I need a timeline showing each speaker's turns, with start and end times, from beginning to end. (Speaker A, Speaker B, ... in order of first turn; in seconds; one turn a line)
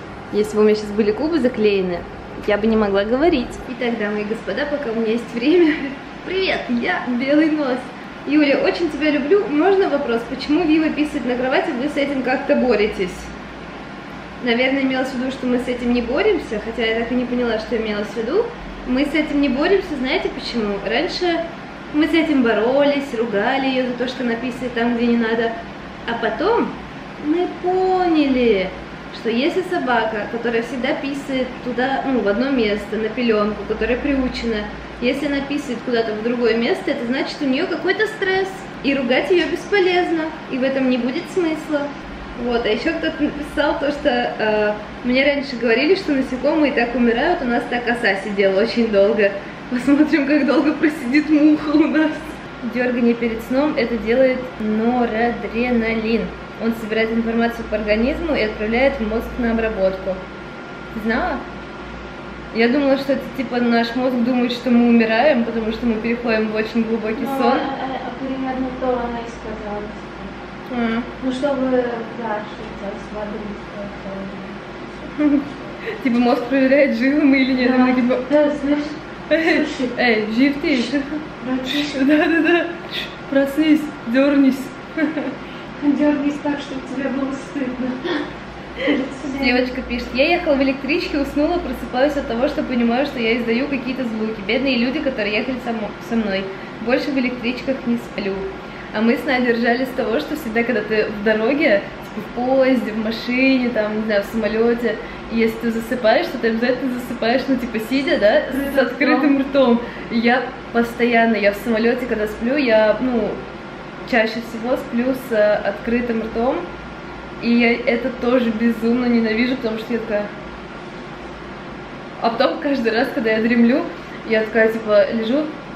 Speaker A: 0.3-13.3
Speaker A: 14.4-60.2
Speaker A: 60.9-61.4
Speaker A: 62.5-67.7
Speaker B: 67.1-70.3
Speaker A: 70.7-71.1
Speaker B: 71.2-75.4
Speaker A: 76.0-78.2
Speaker B: 77.5-79.9
Speaker A: 79.3-85.3
Speaker B: 80.7-82.1
Speaker B: 85.8-88.2
Speaker B: 88.8-89.7
Speaker A: 89.4-113.4
Speaker B: 108.5-109.3
Speaker A: 114.0-116.7
Speaker A: 117.4-120.3
Speaker A: 122.2-125.5